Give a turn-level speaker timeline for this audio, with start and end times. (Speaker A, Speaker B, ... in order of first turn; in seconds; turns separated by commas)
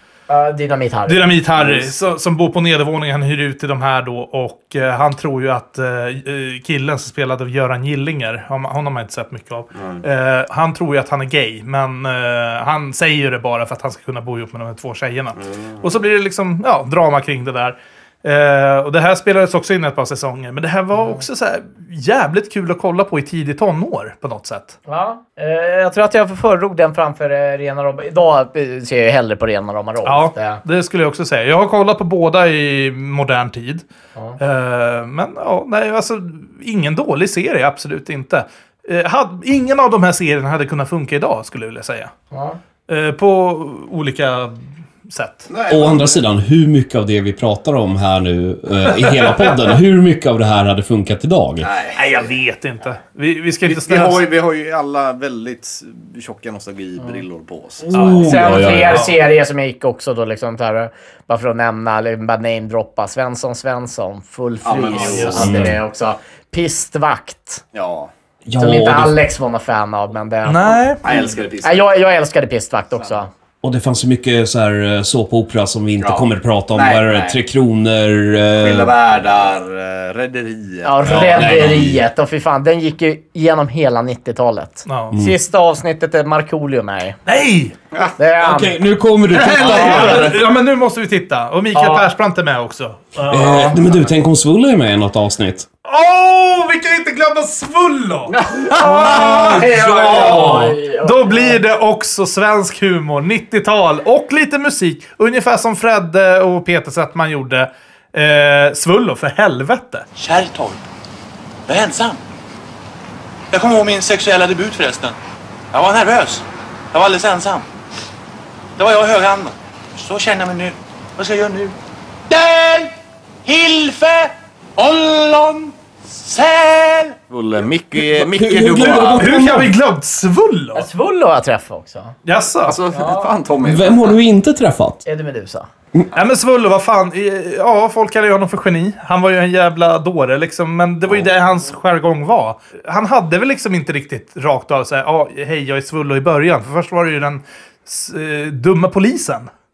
Speaker A: 0.3-1.7, Speaker B: 1.1-24.8, Speaker C: 9.8-10.0, Speaker C: 15.4-15.9, Speaker A: 20.9-21.2, Speaker A: 24.9-30.6, Speaker B: 30.1-33.8, Speaker B: 34.4-42.1, Speaker A: 42.3-42.6, Speaker B: 42.9-45.5, Speaker C: 45.5-46.2, Speaker D: 45.7-51.7, Speaker B: 48.9-49.7, Speaker C: 51.6-52.0, Speaker B: 52.0-54.2, Speaker C: 53.7-57.9, Speaker D: 57.9-59.1, Speaker B: 57.9-59.2, Speaker A: 58.0-67.6, Speaker C: 64.6-65.5, Speaker B: 64.9-65.5, Speaker D: 65.4-65.8, Speaker C: 67.7-68.1, Speaker D: 68.5-69.2, Speaker A: 68.6-73.3, Speaker B: 70.5-71.0, Speaker C: 71.0-71.8, Speaker D: 73.6-78.9, Speaker C: 76.0-77.4, Speaker C: 78.6-81.8, Speaker A: 80.8-87.2, Speaker D: 81.0-82.0, Speaker B: 84.9-85.2, Speaker B: 87.3-87.7, Speaker A: 88.2-88.8, Speaker D: 88.4-90.3, Speaker C: 89.3-90.4, Speaker B: 89.6-93.8, Speaker A: 91.8-92.0, Speaker D: 93.3-95.7, Speaker B: 95.8-110.0, Speaker C: 98.3-99.6, Speaker A: 98.8-101.6, Speaker D: 100.1-100.7, Speaker E: 110.2-110.8, Speaker E: 111.7-112.2, Speaker E: 113.5-115.2, Speaker E: 115.7-117.7, Speaker E: 118.8-121.7, Speaker E: 122.3-122.9, Speaker E: 123.5-127.2, Speaker C: 127.3-129.5, Speaker D: 128.1-129.7, Speaker B: 129.2-130.9, Speaker A: 130.8-132.2, Speaker B: 132.2-132.8, Speaker C: 132.7-134.2, Speaker A: 132.9-133.3, Speaker D: 133.6-135.0, Speaker A: 135.1-135.7, Speaker B: 136.2-149.5